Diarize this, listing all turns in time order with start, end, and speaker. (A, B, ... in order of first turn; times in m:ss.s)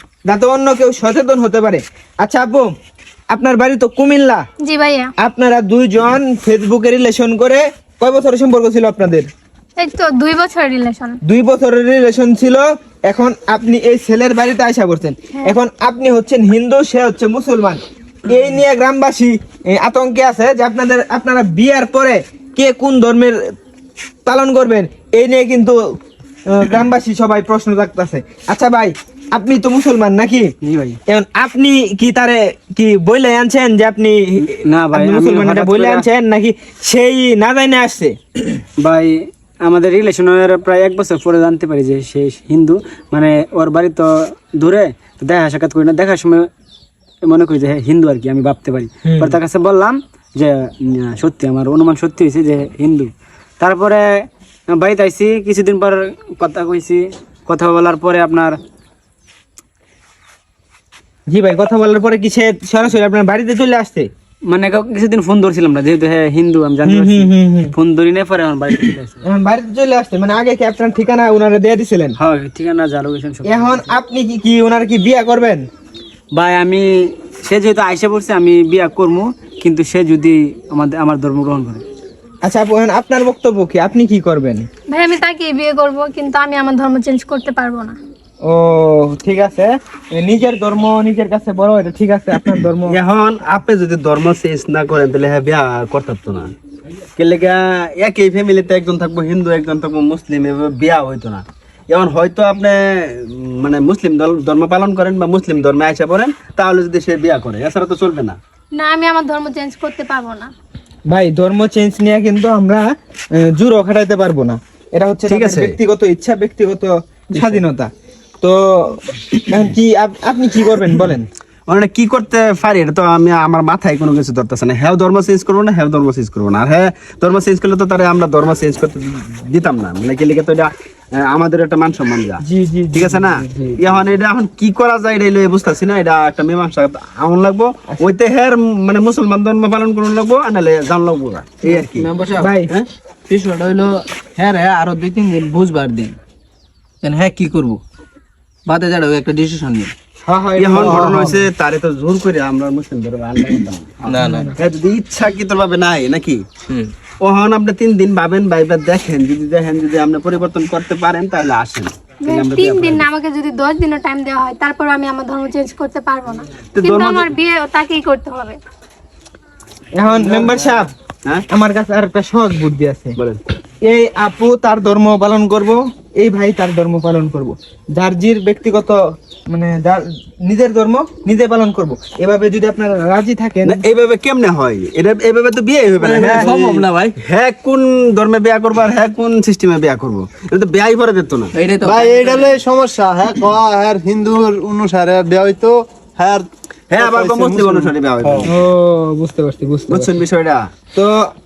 0:00.3-0:02.7 A
0:03.3-0:04.4 A
0:04.6-0:05.1 B
0:05.2-0:09.3 A
0:09.8-0:11.2 B
0:11.2-0:23.4 A
0:24.2-0:25.8 A
0:26.5-0:30.5 A
0:30.6-0:31.0 C
0:31.1-0:38.2 A
0:34.4-0:36.0 C
0:38.8-0:46.5 C
0:47.2-0:58.6 C
0:49.0-0:49.4 A
1:01.3-1:04.1 A
1:04.5-1:09.2 C
1:06.8-1:07.7 A
1:09.2-1:12.2 A
1:12.2-1:13.9 C
1:13.4-1:15.6 A
1:16.3-1:21.8 C
1:22.4-1:24.7 A
1:24.9-1:28.0 B
1:28.4-1:33.0 A
1:32.9-1:36.5 D
1:37.2-1:48.4 D
1:48.7-1:50.5 B
1:51.1-1:57.9 A
1:55.3-1:55.8 D
1:58.4-2:01.2 A
2:01.7-2:12.4 D
2:12.4-2:13.8 A
2:12.9-2:22.1 D
2:21.7-2:22.5 E
2:22.4-2:22.7 A
2:23.3-2:26.2 E
2:27.0-2:27.8 E
2:28.6-2:29.9 E
2:30.2-2:31.3 A
2:30.6-2:36.4 D
2:34.1-2:34.5 E
2:34.2-2:34.5 A
2:37.2-2:43.0 D
2:42.2-2:48.6 B
2:46.8-2:47.3 D
2:49.9-2:50.9 A
2:51.5-2:53.2 A
2:53.8-2:59.0 A
2:59.5-3:03.8 A
3:03.6-3:11.5 D
3:06.0-3:07.2 E
3:11.6-3:12.6 E
3:11.9-3:16.5 F
3:16.9-3:18.5 D
3:17.0-3:17.8 E
3:18.5-3:20.1 A
3:19.9-3:20.7 D